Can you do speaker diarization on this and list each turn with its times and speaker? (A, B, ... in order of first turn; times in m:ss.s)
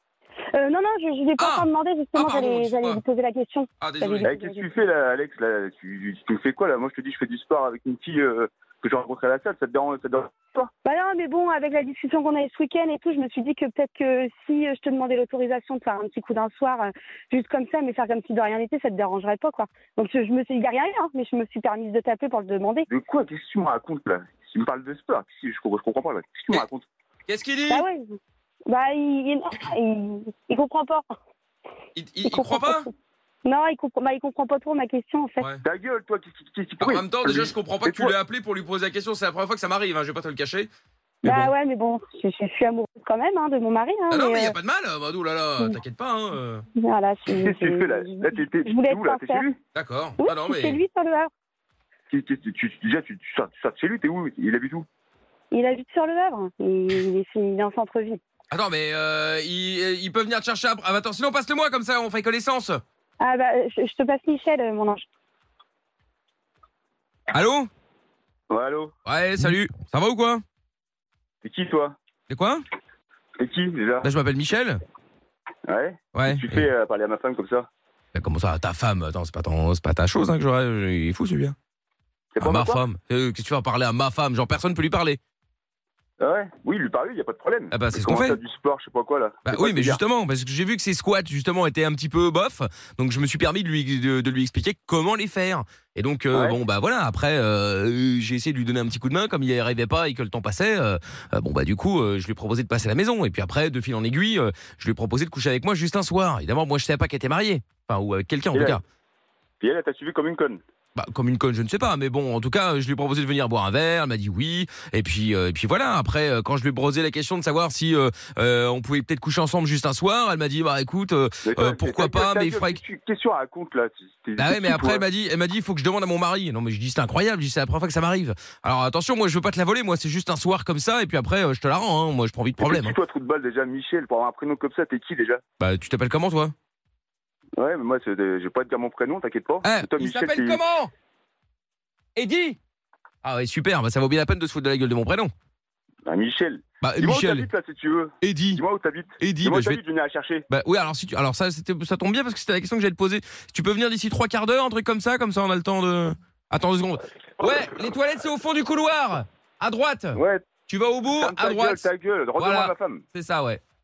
0:00.5-0:04.7 A
0:01.4-0:03.0 B
0:03.8-0:04.3 B
0:04.2-0:10.7 C
0:10.8-0:22.9 A
0:22.9-0:26.9 C
0:27.3-0:27.8 B
0:27.7-0:31.1 A
0:32.0-0:32.9 B
0:32.2-0:32.9 A
0:33.4-0:35.4 A
0:35.6-0:38.2 C
0:36.8-0:40.7 B
0:41.2-0:44.6 A
0:44.1-0:46.6 B
0:46.8-0:49.5 A
0:47.3-0:49.6 C
0:49.7-0:50.8 B
0:50.2-0:51.3 A
0:52.1-0:54.9 C
0:55.5-0:58.2 A
0:58.5-1:02.8 B
1:03.2-1:05.1 A
1:07.3-1:07.7 B
1:08.5-1:08.9 C
1:09.0-1:10.4 B
1:11.4-1:12.0 C
1:12.3-1:12.6 B
1:13.4-1:14.1 C
1:14.0-1:14.8 B
1:15.7-1:17.7 C
1:16.1-1:16.7 B
1:18.1-1:21.6 B
1:22.4-1:22.8 C
1:22.4-1:25.2 B
1:26.2-1:30.0 C
1:27.7-1:28.4 B
1:29.4-1:48.8 B
1:36.3-1:36.6 C
1:48.5-1:48.8 C
1:49.6-1:50.6 C
1:51.0-2:02.8 B
2:01.4-2:05.0 C
2:04.4-2:13.0 B
2:12.6-2:15.4 C
2:15.6-2:16.5 B
2:17.6-2:20.6 C
2:19.6-2:20.9 B
2:22.2-2:22.6 B
2:23.2-2:25.3 B
2:26.1-2:30.4 C
2:26.8-2:27.5 B
2:28.2-2:28.6 B
2:29.2-2:29.8 B
2:30.5-2:43.6 B
2:37.4-2:37.7 C
2:40.2-2:40.5 C
2:41.2-2:43.0 C